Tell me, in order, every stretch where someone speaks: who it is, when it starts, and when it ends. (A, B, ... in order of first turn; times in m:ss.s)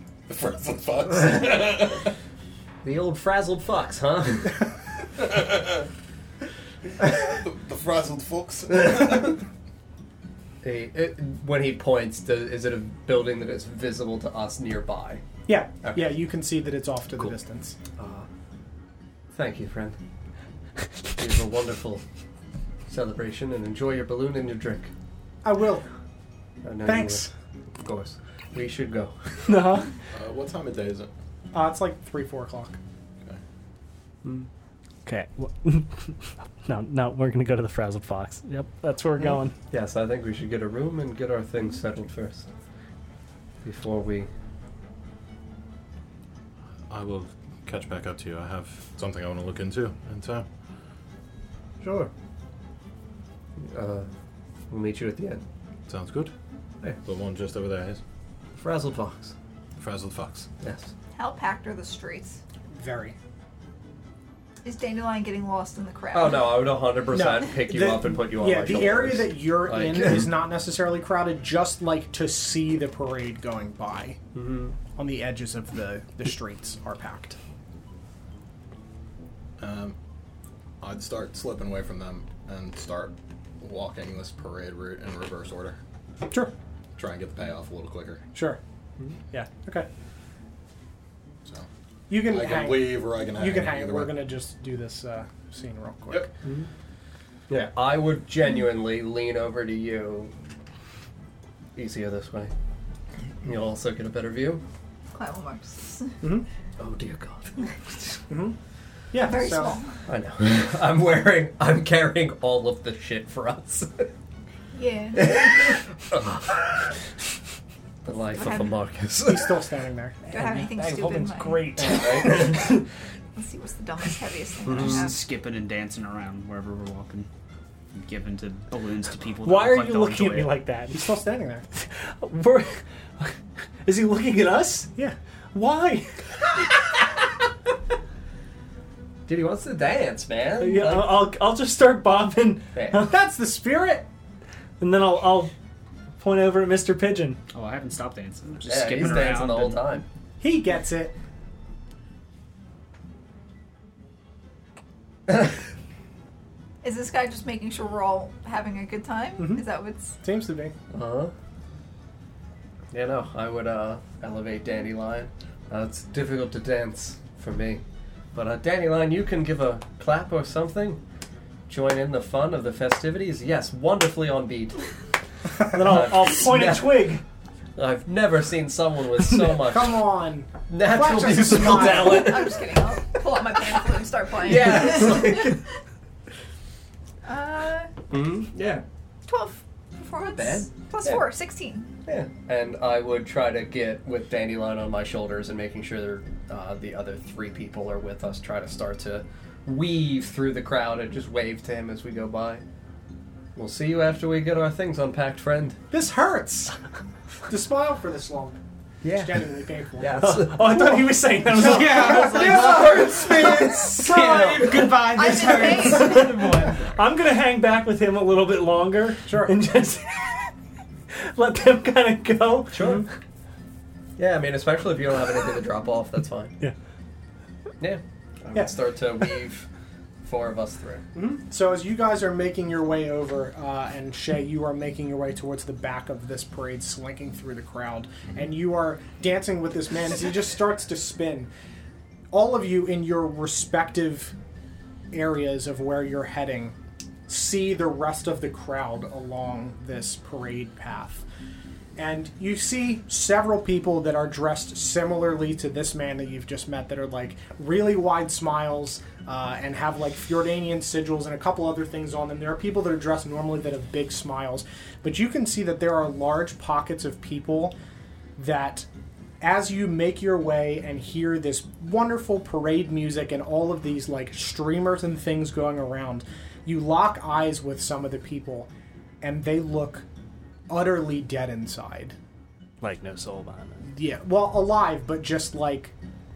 0:00.3-0:02.1 A
0:02.8-0:04.6 B
0:05.2-0:05.8 A
0:07.0-0:09.4 A
0:08.7-0:09.3 B
0:10.6-0:15.2 B
0:15.4-0:17.7 C
0:15.8-0:16.2 B
0:18.0-0:18.3 B
0:19.3-0:20.0 B
0:21.2-0:22.0 B
0:22.9-0:24.9 B
0:25.4-0:25.8 C
0:26.6-0:27.3 B
0:26.8-0:27.3 C
0:27.8-0:29.6 B
0:29.5-0:29.9 D
0:30.1-0:31.1 A
0:31.5-0:32.8 C
0:35.0-0:39.6 D
0:39.7-0:42.5 B
0:43.6-0:44.3 B
0:46.9-0:50.5 A
0:51.8-0:52.1 B
0:53.6-0:54.1 B
0:54.7-0:55.4 B
0:55.9-0:56.3 A
0:57.0-0:58.0 A
0:58.6-0:59.3 B
0:59.8-1:00.5 A
1:00.6-1:00.9 B
1:01.1-1:02.4 E
1:02.7-1:03.2 C
1:04.6-1:06.7 E
1:06.1-1:10.3 B
1:07.1-1:14.2 C
1:14.3-1:14.7 B
1:15.0-1:17.4 C
1:19.6-1:20.0 A
1:20.8-1:25.8 A
1:26.3-1:26.5 C
1:27.0-1:28.2 A
1:28.3-1:28.6 C
1:29.3-1:29.9 C
1:31.4-1:34.2 A
1:32.1-1:36.3 C
1:37.5-1:40.3 B
1:41.7-1:42.5 B
1:43.4-1:44.6 B
1:45.1-1:46.2 E
1:46.8-1:48.1 B
1:48.3-1:48.6 C
1:49.1-1:49.8 C
1:49.2-1:50.0 E
1:50.1-1:54.1 B
1:54.7-1:55.5 E
1:55.1-1:56.9 B
1:58.0-1:59.6 B
1:58.3-1:58.8 E
1:59.2-2:00.2 C
2:00.2-2:02.8 D
2:00.3-2:02.0 E
2:01.8-2:02.7 B
2:03.3-2:05.2 E
2:04.6-2:05.1 B
2:04.7-2:07.3 F
2:07.9-2:10.5 F
2:09.4-2:11.1 D
2:10.9-2:11.6 C
2:11.8-2:14.9 D
2:15.5-2:16.2 D
2:19.3-2:21.3 B
2:20.6-2:23.1 D
2:22.7-2:23.1 B
2:22.9-2:24.0 C
2:24.8-2:25.5 D
2:26.2-2:27.4 D
2:27.5-2:30.0 F
2:28.6-2:30.0 B
2:30.4-2:31.1 C
2:35.3-2:35.5 B
2:36.8-2:40.1 E
2:39.4-2:39.6 C
2:40.2-2:40.7 C
2:40.9-2:41.3 B
2:42.9-2:47.8 B
2:48.3-2:51.0 B
2:51.7-2:54.8 B
2:55.6-2:57.2 D
2:55.7-2:57.1 B
2:57.8-3:00.0 B
2:59.6-3:02.3 C
3:00.7-3:02.7 B
3:01.9-3:05.6 E
3:04.4-3:05.6 B
3:07.2-3:07.9 E
3:08.1-3:08.8 B
3:09.3-3:11.9 E
3:10.4-3:11.2 B
3:12.0-3:22.6 B
3:23.5-3:25.8 B
3:25.9-3:26.7 C
3:27.5-3:28.6 C
3:29.0-3:35.0 B
3:29.1-3:34.1 C
3:30.1-3:32.9 D
3:34.1-3:40.5 D
3:34.4-3:35.6 F
3:34.7-3:36.0 C
3:34.9-3:36.4 E
3:39.2-3:39.5 C
3:41.1-3:43.0 D
3:42.7-3:43.0 B
3:42.8-3:43.0 C
3:44.2-3:46.6 B
3:47.8-3:49.7 B
3:50.2-3:51.0 B
3:51.1-4:01.5 C
4:02.3-4:04.3 C
4:05.1-4:06.7 C
4:07.3-4:11.2 C
4:12.0-4:27.7 C
4:28.4-4:28.9 C
4:29.4-4:38.7 C
4:39.2-4:40.0 C
4:40.7-4:42.2 C
4:42.8-4:43.8 D
4:43.8-4:45.9 C